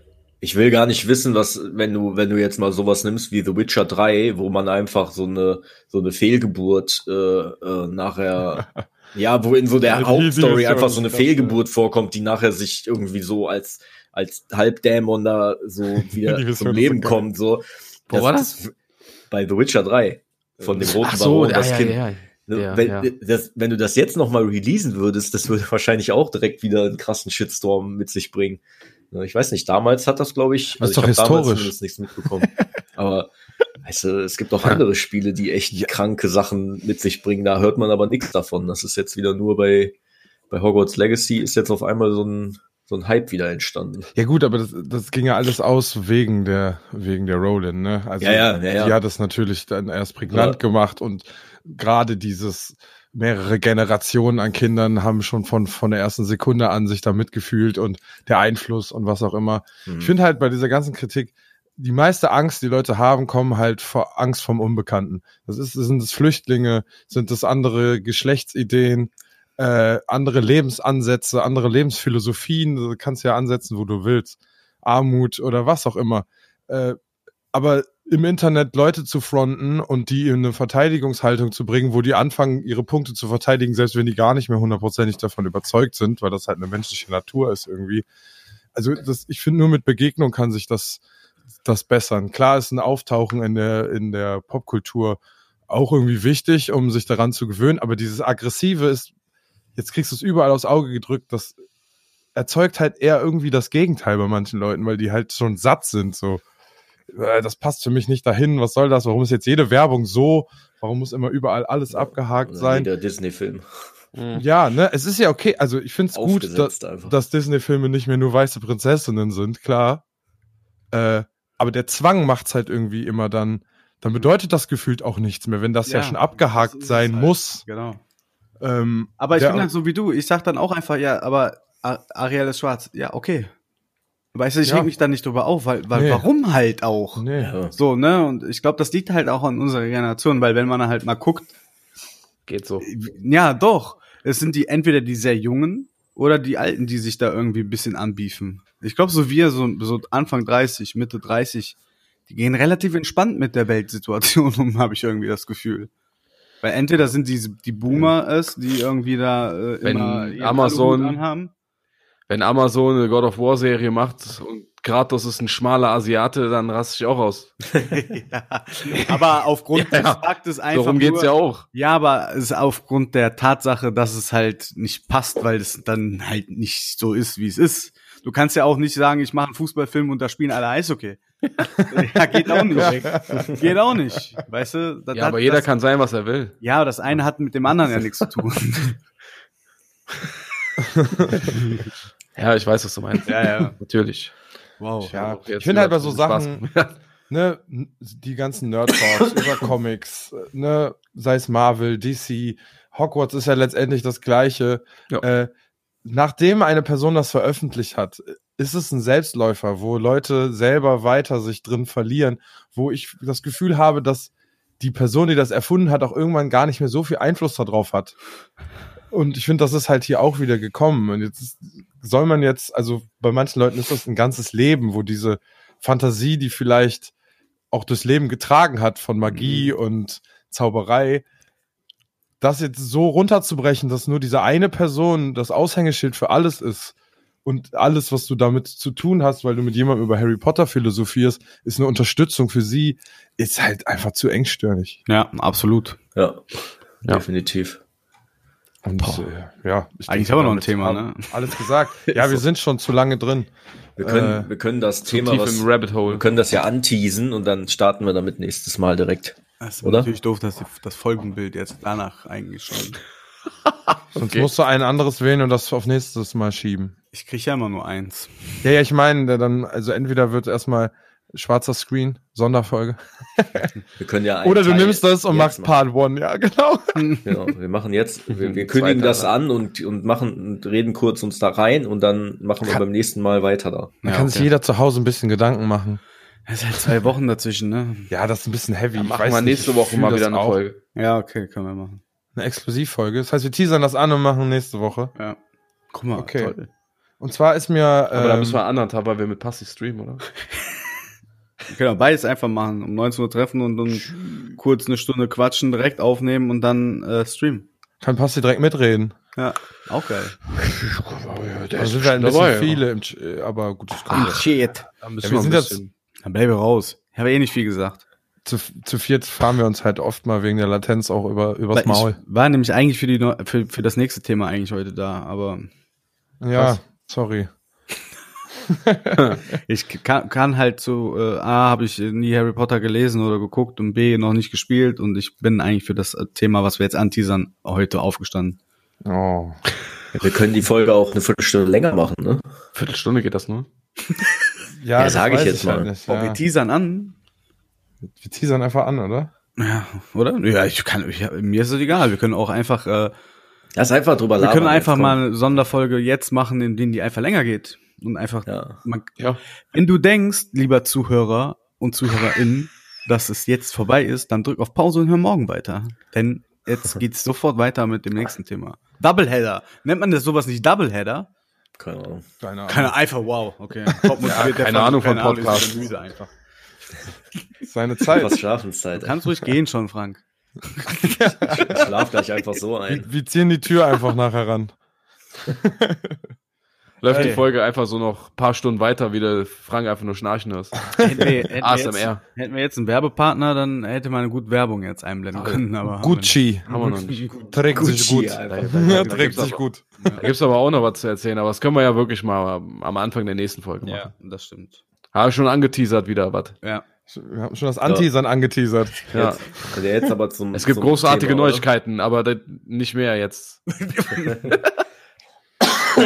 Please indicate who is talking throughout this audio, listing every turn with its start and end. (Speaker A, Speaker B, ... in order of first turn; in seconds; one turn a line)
Speaker A: 0.4-18.7
Speaker B: 9.8-11.6
Speaker B: 16.1-17.2
Speaker C: 18.1-18.5
Speaker A: 19.3-33.3
Speaker B: 20.6-20.9
Speaker C: 20.8-23.1
Speaker B: 30.8-31.7
Speaker A: 33.8-39.9
Speaker A: 40.5-44.1
Speaker B: 44.1-77.0
Speaker A: 48.2-48.9
Speaker A: 50.3-50.6
Speaker A: 59.9-60.1
Speaker B: 77.5-88.0
Speaker B: 88.7-91.0
Speaker B: 91.6-99.1
Speaker B: 99.8-101.6
Speaker B: 102.3-106.4
Speaker B: 107.1-112.9
Speaker A: 111.9-113.9
Speaker C: 114.1-114.4
Speaker B: 114.3-120.0
Speaker A: 116.1-117.1
Speaker B: 120.9-127.6
Speaker D: 125.8-128.0
Speaker B: 128.6-129.7
Speaker D: 129.2-133.5
Speaker D: 134.3-141.5
Speaker B: 134.6-134.9
Speaker B: 135.9-136.2
Speaker B: 137.2-137.5
Speaker A: 137.3-137.7
Speaker C: 142.5-142.9
Speaker D: 142.8-151.8
Speaker D: 152.3-155.9
Speaker D: 156.6-161.5
Speaker C: 159.8-161.2
Speaker C: 162.3-167.6
Speaker D: 167.9-181.2
Speaker C: 168.9-169.2
Speaker C: 169.7-171.7
Speaker D: 181.7-185.7
Speaker B: 182.7-183.4
Speaker C: 185.1-186.6
Speaker D: 186.6-189.0
Speaker B: 190.9-191.3
Speaker C: 192.3-194.3
Speaker D: 193.3-193.7
Speaker D: 194.8-195.1
Speaker C: 195.0-196.9
Speaker B: 195.1-196.6
Speaker B: 197.3-205.5
Speaker B: 206.0-218.1
Speaker B: 219.1-227.1
Speaker B: 227.7-231.2
Speaker D: 229.3-229.7
Speaker B: 232.4-245.0
Speaker D: 245.1-246.0
Speaker A: 246.1-246.4
Speaker A: 247.0-247.8
Speaker B: 248.8-253.5
Speaker C: 249.0-249.2
Speaker D: 250.1-251.3
Speaker A: 254.0-260.1
Speaker B: 254.0-254.5
Speaker C: 255.1-256.2
Speaker D: 259.6-263.0
Speaker C: 264.1-264.5
Speaker B: 264.1-266.9
Speaker D: 267.1-268.3
Speaker B: 268.6-273.7
Speaker A: 274.0-275.7
Speaker B: 274.4-277.2
Speaker D: 276.9-277.2
Speaker A: 277.2-283.9
Speaker C: 278.3-279.3
Speaker D: 284.0-284.5
Speaker B: 284.0-286.0
Speaker D: 286.5-288.1
Speaker B: 288.1-290.6
Speaker C: 289.0-290.8
Speaker D: 290.9-292.0
Speaker B: 292.3-295.1
Speaker D: 295.9-296.7
Speaker B: 296.1-296.5
Speaker B: 297.2-298.6
Speaker C: 298.1-300.3
Speaker D: 301.7-307.6
Speaker B: 308.0-309.1
Speaker D: 309.4-310.4
Speaker C: 310.6-312.8
Speaker B: 311.8-314.4
Speaker D: 314.1-314.9
Speaker C: 315.0-315.9
Speaker B: 315.2-315.8
Speaker D: 316.2-318.0
Speaker B: 318.4-322.2
Speaker D: 321.7-325.7
Speaker B: 326.4-327.5
Speaker D: 326.5-326.8
Speaker B: 328.7-329.4
Speaker D: 329.5-338.6
Speaker B: 339.0-339.6
Speaker A: 340.1-342.4
Speaker C: 342.7-343.7
Speaker B: 344.8-346.4
Speaker A: 345.0-345.9
Speaker D: 346.1-347.1
Speaker B: 348.2-349.3
Speaker D: 349.6-353.1
Speaker A: 353.7-355.2
Speaker D: 354.4-359.1
Speaker A: 358.4-358.8
Speaker D: 359.7-371.3
Speaker A: 371.8-372.2
Speaker B: 372.4-372.9
Speaker D: 372.7-376.3
Speaker C: 374.2-375.8
Speaker B: 377.6-378.3
Speaker A: 378.1-379.1
Speaker D: 379.0-381.8
Speaker B: 380.9-381.9
Speaker A: 381.6-383.1
Speaker B: 382.9-384.7
Speaker B: 385.6-386.2
Speaker C: 387.0-392.2
Speaker B: 387.1-387.4
Speaker D: 387.1-387.4
Speaker D: 391.0-397.6
Speaker C: 395.3-395.6
Speaker B: 396.0-396.9
Speaker C: 396.7-397.3
Speaker B: 397.5-400.1
Speaker A: 397.7-399.2
Speaker C: 398.4-399.6
Speaker D: 398.9-399.4
Speaker D: 400.0-400.2
Speaker C: 400.2-404.1
Speaker D: 403.8-404.8
Speaker C: 405.1-406.6
Speaker B: 407.1-409.1
Speaker C: 409.1-409.4
Speaker A: 409.7-411.6
Speaker C: 410.5-413.9
Speaker D: 413.8-414.6